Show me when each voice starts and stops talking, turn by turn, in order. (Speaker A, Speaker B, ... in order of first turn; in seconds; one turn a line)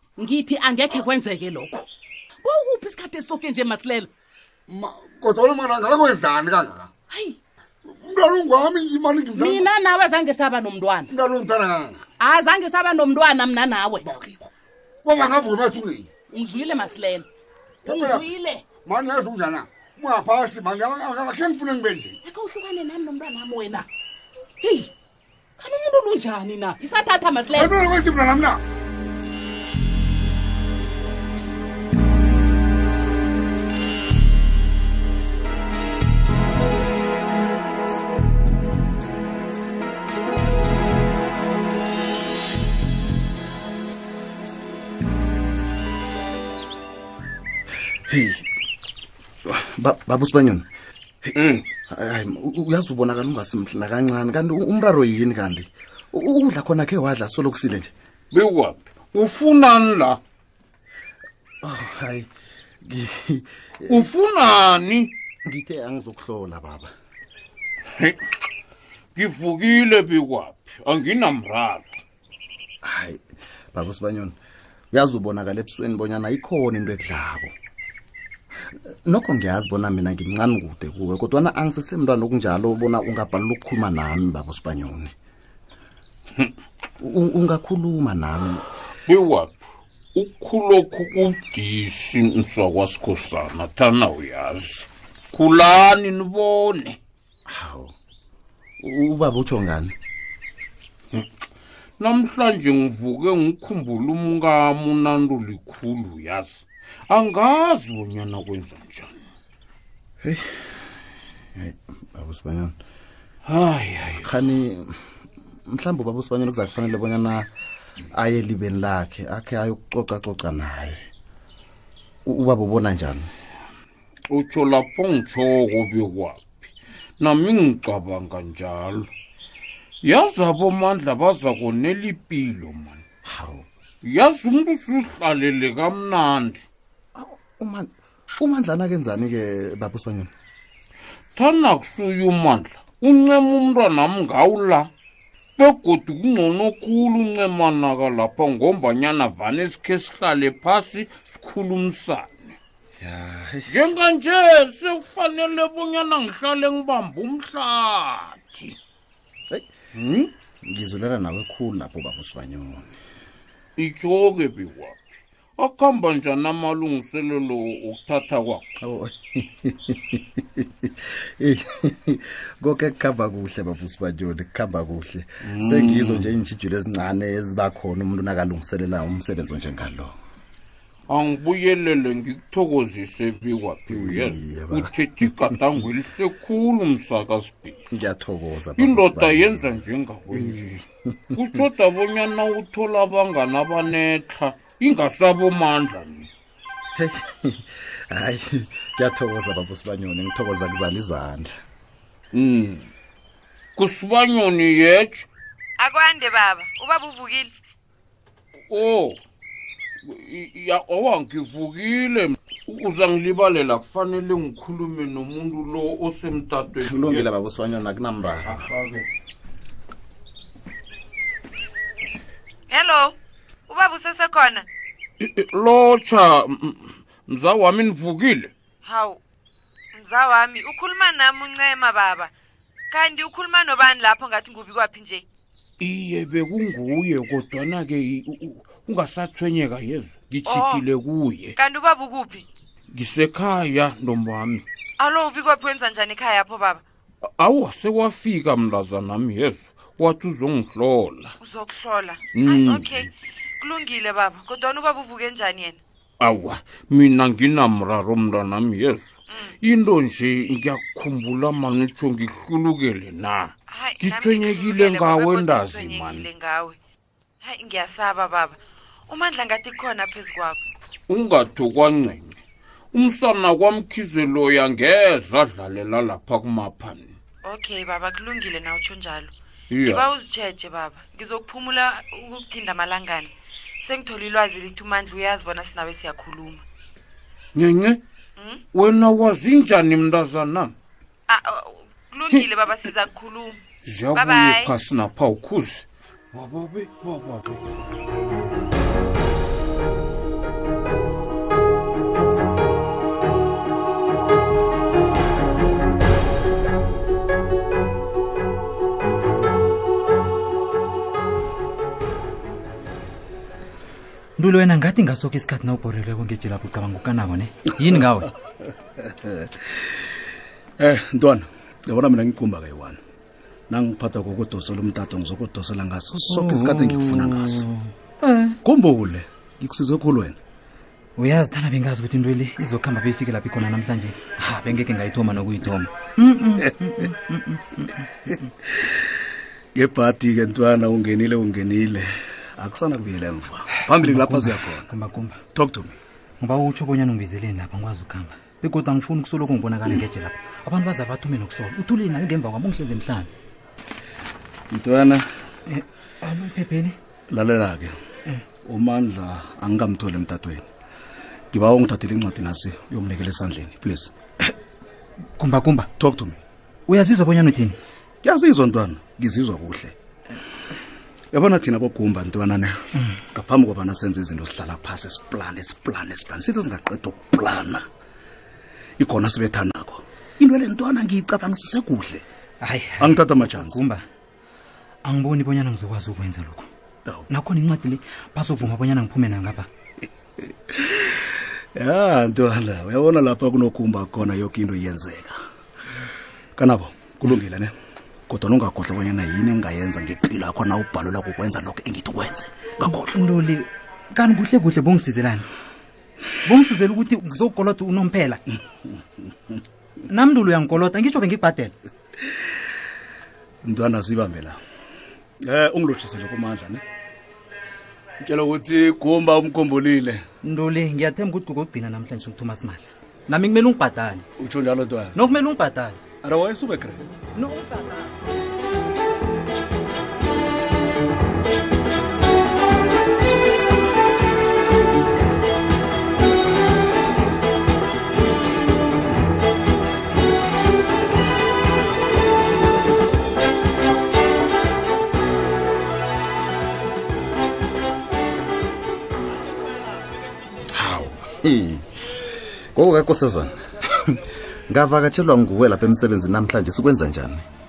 Speaker A: 0.2-1.9
Speaker A: 2.4-4.1
Speaker B: 4.7-6.9
Speaker B: 8.0-9.7
Speaker A: 9.3-11.1
Speaker B: 11.1-12.0
Speaker A: 12.2-14.3
Speaker B: 15.0-16.1
Speaker A: 16.3-17.3
Speaker A: 17.8-18.6
Speaker B: 17.8-22.2
Speaker A: 22.2-23.9
Speaker A: 24.6-24.9
Speaker A: 25.6-27.8
Speaker B: 27.5-28.6
Speaker C: 48.1-48.5
Speaker C: 49.5-50.7
Speaker D: 51.3-51.6
Speaker C: 51.9-57.9
Speaker D: 58.3-60.2
Speaker C: 61.6-62.3
Speaker C: 62.9-64.1
Speaker D: 63.9-65.1
Speaker C: 65.5-66.9
Speaker D: 69.2-72.0
Speaker C: 72.8-73.2
Speaker C: 73.7-74.3
Speaker C: 74.9-77.5
Speaker C: 79.1-85.1
Speaker C: 87.0-88.6
Speaker D: 89.1-89.6
Speaker D: 90.1-97.0
Speaker C: 97.5-97.9
Speaker C: 98.8-99.9
Speaker D: 102.0-109.2
Speaker C: 110.2-110.6
Speaker C: 111.6-112.8
Speaker D: 113.5-114.3
Speaker C: 114.2-115.0
Speaker C: 115.7-117.5
Speaker C: 118.1-121.0
Speaker C: 122.2-123.3
Speaker D: 124.3-129.1
Speaker D: 130.0-133.0
Speaker C: 133.2-133.7
Speaker D: 134.0-136.7
Speaker C: 137.2-140.3
Speaker D: 141.3-144.9
Speaker D: 145.6-152.6
Speaker C: 153.0-153.7
Speaker D: 153.7-158.8
Speaker D: 159.9-160.3
Speaker C: 160.6-162.9
Speaker D: 163.8-165.0
Speaker D: 165.6-168.7
Speaker C: 168.8-180.1
Speaker D: 175.4-176.3
Speaker D: 181.1-187.9
Speaker C: 183.9-184.9
Speaker C: 187.9-189.7
Speaker D: 188.8-190.8
Speaker C: 190.3-191.4
Speaker D: 191.3-196.3
Speaker C: 196.9-201.5
Speaker D: 202.3-202.9
Speaker D: 203.8-205.3
Speaker E: 205.8-207.5
Speaker D: 208.7-209.2
Speaker D: 210.0-217.3
Speaker C: 216.8-218.6
Speaker D: 218.4-219.1
Speaker E: 222.7-223.1
Speaker E: 223.7-224.7
Speaker D: 225.2-228.5
Speaker E: 228.8-229.2
Speaker E: 229.9-232.3
Speaker E: 232.9-235.2
Speaker D: 235.8-241.6
Speaker E: 240.4-240.8
Speaker E: 241.6-242.4
Speaker D: 242.9-244.6
Speaker E: 245.0-246.8
Speaker D: 247.2-251.3
Speaker E: 251.4-255.8
Speaker D: 252.3-253.1
Speaker D: 256.2-266.3
Speaker E: 263.7-266.8
Speaker E: 267.4-270.6
Speaker D: 271.1-272.4
Speaker D: 272.9-277.2
Speaker E: 277.4-286.6
Speaker D: 279.7-280.1
Speaker D: 287.6-288.0
Speaker E: 288.4-288.6
Speaker D: 288.7-290.8
Speaker E: 291.3-293.6
Speaker D: 293.8-297.6
Speaker E: 294.1-294.7
Speaker F: 314.4-318.3
Speaker G: 319.0-319.5
Speaker G: 320.8-323.0
Speaker G: 323.7-327.6
Speaker F: 326.3-328.6
Speaker G: 328.6-330.4
Speaker F: 331.2-338.1
Speaker G: 339.8-344.9
Speaker F: 343.8-345.4
Speaker G: 345.5-346.0
Speaker F: 346.4-353.3
Speaker G: 354.7-355.3
Speaker F: 355.7-356.9
Speaker G: 357.3-357.9
Speaker G: 358.6-360.6
Speaker G: 361.5-364.1
Speaker F: 365.4-365.9
Speaker G: 366.0-366.4
Speaker F: 366.9-367.8
Speaker G: 368.2-369.9
Speaker G: 371.3-377.8
Speaker G: 379.0-382.2
Speaker F: 382.6-384.0
Speaker G: 383.0-383.8
Speaker F: 385.0-386.7
Speaker F: 387.3-389.7
Speaker G: 390.7-395.4
Speaker G: 396.6-397.7
Speaker G: 398.3-403.1
Speaker F: 402.9-405.5
Speaker F: 406.4-408.4
Speaker F: 410.1-411.7
Speaker G: 413.6-414.6
Speaker G: 415.4-416.8
Speaker G: 418.2-420.2
Speaker F: 420.4-424.2
Speaker G: 424.4-425.2
Speaker F: 425.1-426.1
Speaker G: 426.2-427.0
Speaker F: 427.3-428.1
Speaker C: 450.7-457.4